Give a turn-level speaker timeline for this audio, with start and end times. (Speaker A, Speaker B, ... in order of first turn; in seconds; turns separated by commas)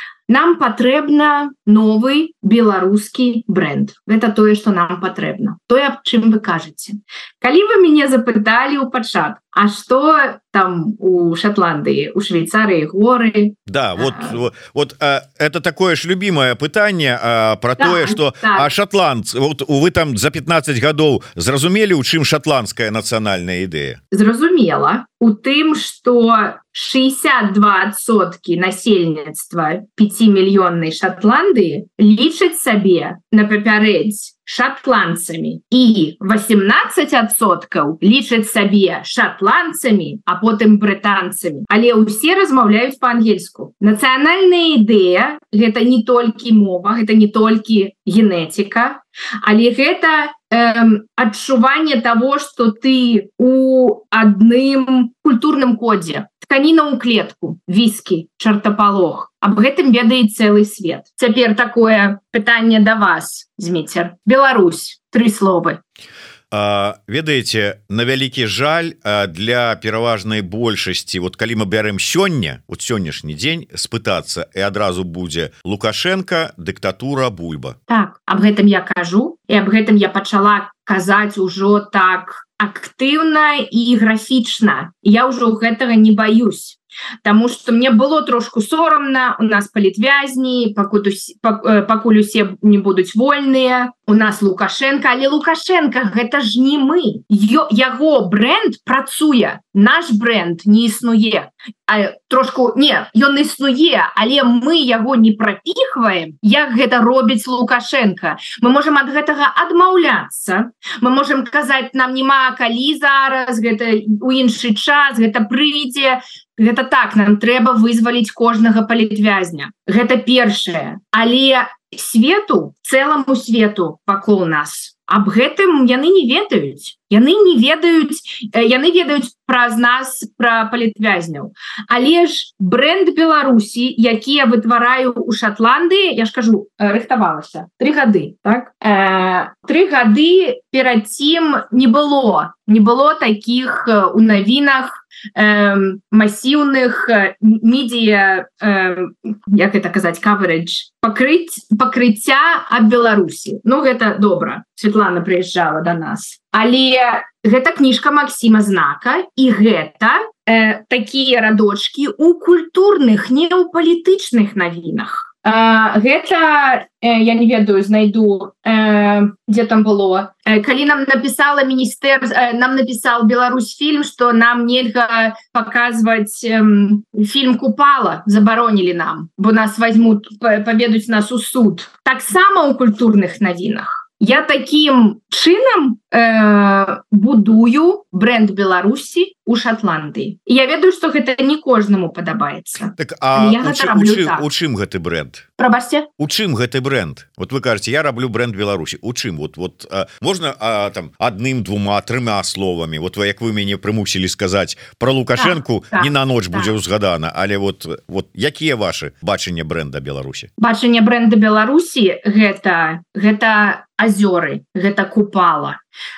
Speaker A: 0.3-14.3, Speaker B: 13.7-24.0, Speaker A: 17.8-18.7, Speaker A: 24.1-65.8, Speaker B: 66.5-77.8, Speaker A: 77.9-194.4, Speaker B: 193.0-195.5, Speaker A: 195.6-196.1, Speaker B: 196.2-210.5, Speaker A: 205.3-206.7, Speaker A: 210.6-215.8